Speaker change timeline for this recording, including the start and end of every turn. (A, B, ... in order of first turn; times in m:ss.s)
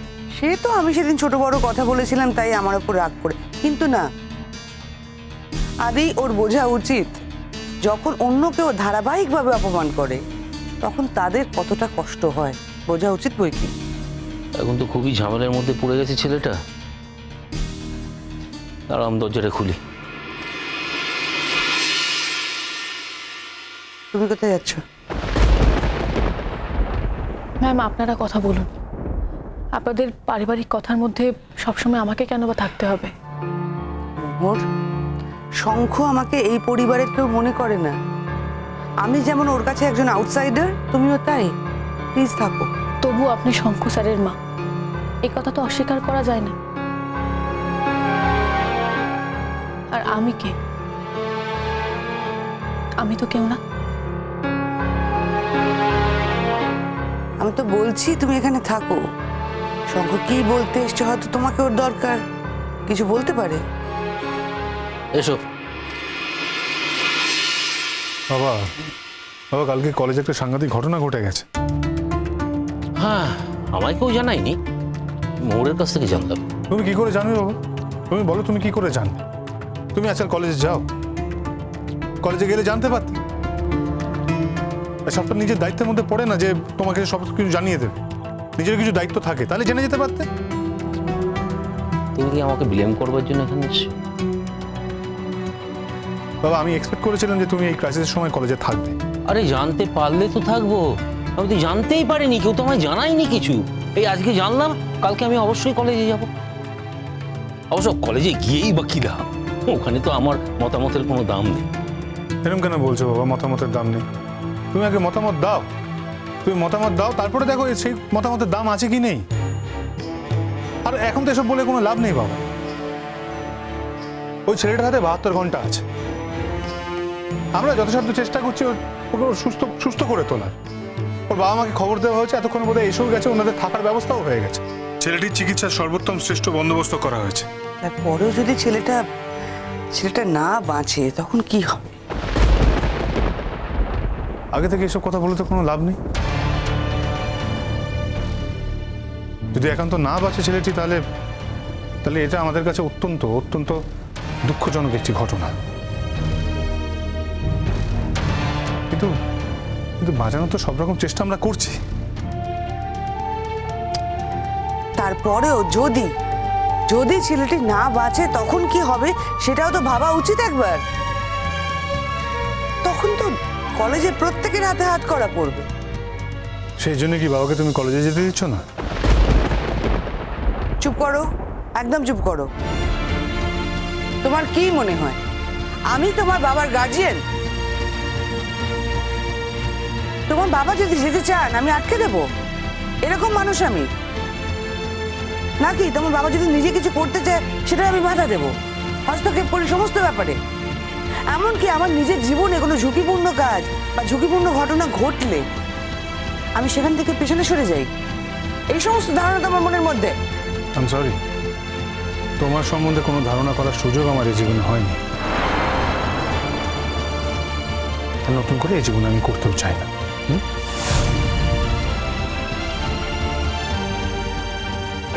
0:00.4-0:04.0 A
0:05.8-0:07.2 A
0:07.8-0:10.2 A
0:10.8-0:13.7 A
0:14.6-0:16.6 B
0:18.9-0:19.8 B
0:24.1-0:24.8 A
0:27.6-0:28.8 C
0:29.7-0:33.1 C
0:34.2-0:34.6 A
0:35.6-0:38.0 A
0:39.0-0:41.5 A
0:42.1-0:42.7 A
0:43.0-0:44.4 C
0:45.2-0:46.6 C
0:49.9-0:50.5 C
0:53.0-0:53.6 C
0:57.4-0:59.0 A
0:59.9-1:02.2 A
1:02.9-1:03.6 A
1:05.1-1:05.4 B
1:08.3-1:08.7 D
1:09.5-1:11.4 D
1:13.0-1:14.6 B
1:15.4-1:16.4 B
1:16.7-1:17.6 D
1:18.1-1:19.2 D
1:19.9-1:20.8 D
1:22.2-1:23.2 D
1:25.1-1:28.0 D
1:28.6-1:30.3 D
1:32.1-1:33.9 B
1:36.4-1:39.0 D
1:39.3-1:46.3 B
1:47.7-1:51.7 B
1:52.4-1:54.0 D
1:54.7-1:55.7 D
1:56.4-1:59.2 D
2:00.8-2:02.4 D
2:04.5-2:05.8 D
2:07.6-2:10.6 D
2:11.3-2:17.5 D
2:17.8-2:19.0 A
2:20.0-2:22.0 A
2:24.5-2:26.0 D
2:29.5-2:31.0 D
2:32.0-2:33.8 D
2:34.4-2:35.5 D
2:40.0-2:41.8 D
2:45.0-2:46.1 A
2:46.9-2:50.8 A
2:52.8-2:55.6 A
2:56.8-2:58.6 D
3:00.8-3:01.2 A
3:01.8-3:02.5 A
3:04.2-3:05.2 A
3:05.9-3:07.2 A
3:10.3-3:12.2 A
3:13.0-3:13.9 A
3:15.6-3:18.5 A
3:19.1-3:20.4 A
3:21.3-3:25.5 A
3:26.6-3:27.9 A
3:28.7-3:30.1 A
3:30.8-3:31.2 D
3:32.4-3:35.0 D
3:38.2-3:40.4 D